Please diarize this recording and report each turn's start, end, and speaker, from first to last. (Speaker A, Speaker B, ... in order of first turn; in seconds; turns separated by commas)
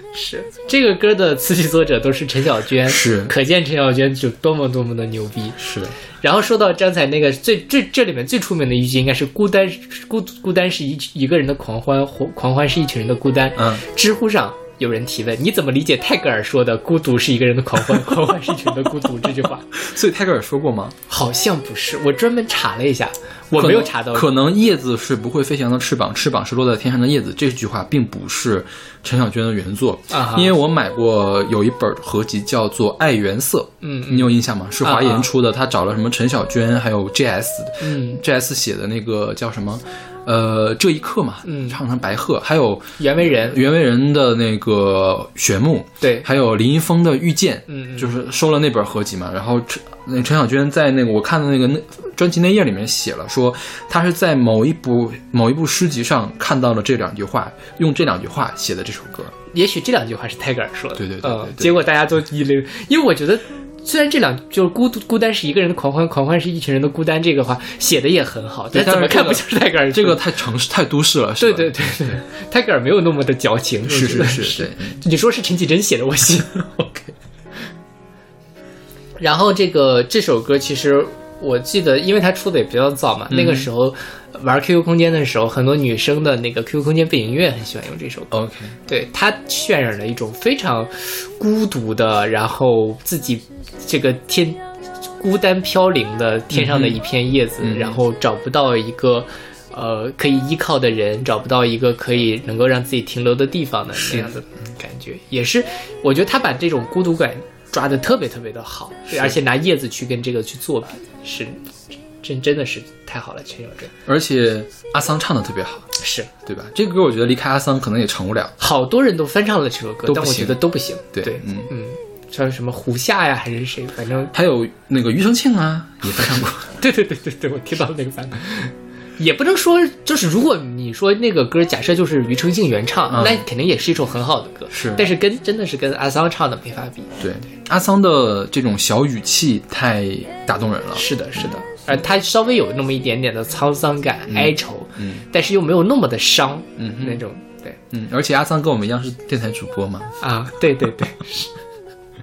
Speaker A: 0.1-5.6, Speaker B: 2.8-3.3, Speaker B: 5.6-6.0, Speaker A: 6.2-19.7, Speaker B: 13.6-13.8, Speaker B: 19.7-20.9, Speaker A: 21.1-24.3, Speaker B: 23.5-59.3, Speaker A: 30.1-30.5, Speaker A: 33.8-35.3, Speaker A: 37.8-38.2, Speaker A: 41.5-41.8, Speaker A: 43.0-43.6, Speaker A: 46.0-46.3, Speaker A: 47.7-48.1, Speaker A: 59.5-70.2, Speaker B: 61.0-61.8, Speaker B: 68.7-72.2, Speaker A: 71.4-77.1, Speaker B: 73.9-74.9, Speaker A: 79.2-88.3, Speaker B: 83.3-83.7, Speaker B: 88.3-88.8, Speaker A: 88.9-94.6, Speaker A: 95.2-113.9, Speaker B: 96.5-97.0, Speaker B: 97.6-98.0, Speaker B: 103.9-104.3, Speaker B: 109.1-109.4, Speaker B: 114.0-115.9, Speaker A: 116.0-116.3, Speaker B: 116.5-118.5, Speaker A: 118.6-124.3, Speaker B: 120.0-120.6, Speaker B: 121.1-121.7, Speaker B: 124.3-126.7, Speaker A: 126.8-137.1, Speaker B: 133.1-133.4, Speaker B: 134.7-135.1, Speaker B: 137.2-141.6, Speaker A: 140.9-147.8, Speaker B: 144.3-145.2, Speaker B: 146.8-147.2, Speaker B: 147.9-150.2, Speaker A: 150.2-151.5